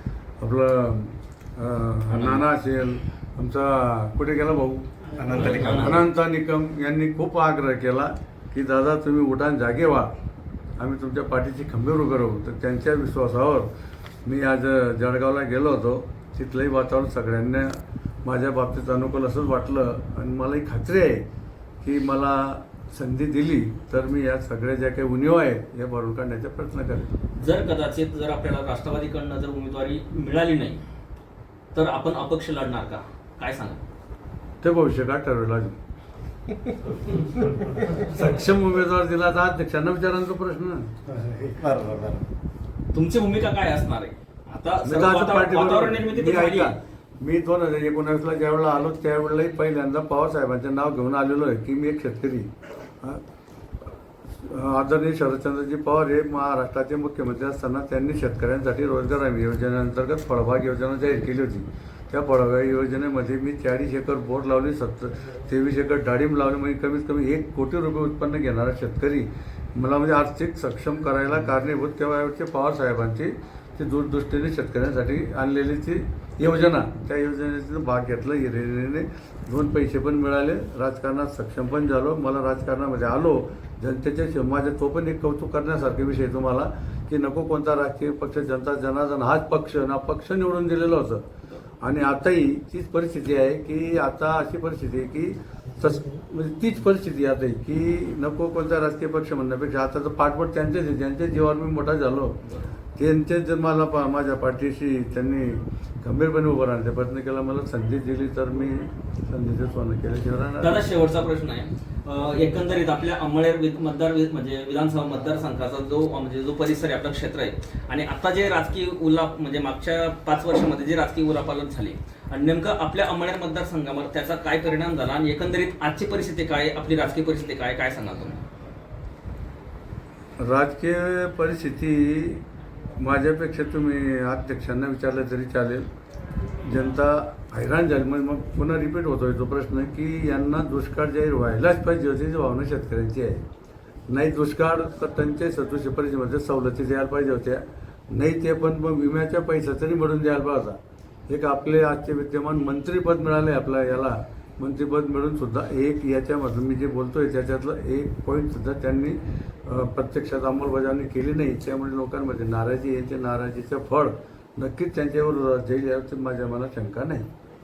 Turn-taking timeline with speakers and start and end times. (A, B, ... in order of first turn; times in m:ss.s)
0:00.4-0:10.1 A
0:02.1-0:02.5 B
0:05.2-0:06.0 C
0:05.3-0:06.0 B
0:10.8-0:13.7 A
0:14.2-0:21.2 A
0:21.8-0:27.1 A
0:27.4-0:30.8 B
0:31.7-0:33.8 B
0:34.6-0:35.8 A
0:38.0-0:40.9 A
0:41.2-0:42.3 C
0:42.9-0:46.7 B
0:44.8-0:52.5 A
0:54.4-1:31.2 A
1:31.8-1:42.4 A
1:43.0-1:50.8 A
1:50.6-2:08.4 B
2:10.4-2:12.4 A
2:13.0-2:15.9 A
2:16.6-2:23.4 A
2:24.1-2:30.8 A
2:31.3-2:47.3 A